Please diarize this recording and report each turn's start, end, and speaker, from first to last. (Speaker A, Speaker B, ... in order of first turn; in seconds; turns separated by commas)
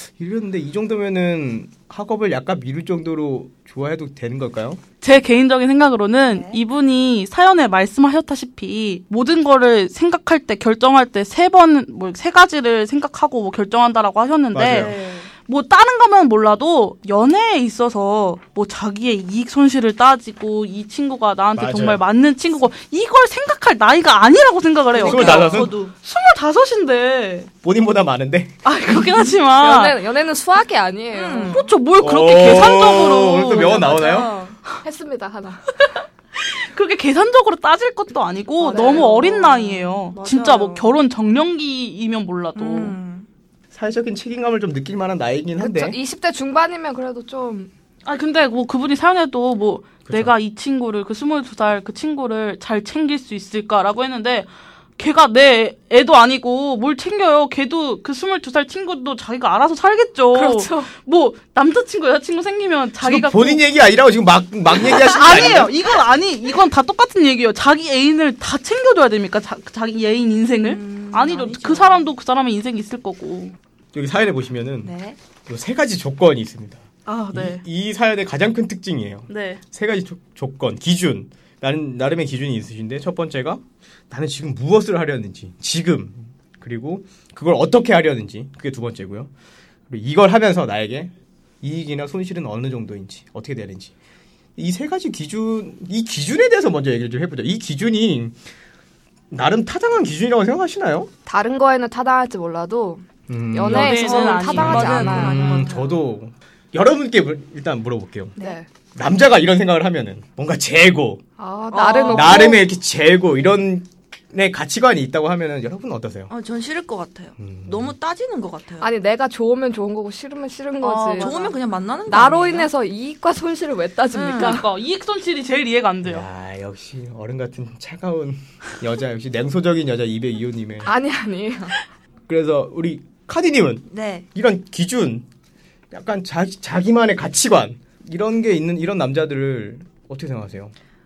Speaker A: 0.2-4.8, Speaker B: 5.0-27.5, Speaker C: 6.3-6.6, Speaker A: 14.5-14.9, Speaker C: 14.6-15.3, Speaker A: 21.6-22.0, Speaker C: 24.9-25.9, Speaker A: 25.0-25.7, Speaker A: 27.6-28.6, Speaker B: 28.6-30.0, Speaker D: 29.6-31.6, Speaker C: 31.1-31.7, Speaker B: 31.5-34.0, Speaker A: 32.0-34.4, Speaker D: 33.6-35.7, Speaker B: 36.4-43.0, Speaker C: 38.6-40.9, Speaker D: 38.6-39.2, Speaker C: 42.6-43.3, Speaker A: 43.7-46.0, Speaker D: 45.6-47.7, Speaker B: 48.0-63.6, Speaker A: 50.0-50.3, Speaker D: 60.3-60.9, Speaker A: 63.0-65.7, Speaker B: 64.8-73.5, Speaker C: 70.6-72.1, Speaker A: 73.9-74.9, Speaker C: 74.8-75.2, Speaker A: 75.5-89.3, Speaker B: 77.1-77.6, Speaker B: 79.3-79.6, Speaker A: 89.9-93.9, Speaker A: 94.6-98.4, Speaker A: 99.3-101.1, Speaker D: 101.3-105.7, Speaker A: 103.3-108.3, Speaker B: 103.7-105.5, Speaker C: 104.0-106.0, Speaker D: 108.4-108.7, Speaker A: 109.0-111.2, Speaker D: 111.4-112.6, Speaker C: 111.7-112.6, Speaker A: 112.1-116.3, Speaker C: 116.3-118.9, Speaker A: 117.4-117.9, Speaker D: 118.8-121.4, Speaker B: 120.8-121.6, Speaker C: 121.2-122.7, Speaker D: 122.1-124.7, Speaker C: 124.1-124.6, Speaker B: 124.3-126.3, Speaker A: 126.0-130.9, Speaker D: 130.8-131.8, Speaker A: 132.3-135.2, Speaker C: 133.9-134.3, Speaker A: 135.9-140.7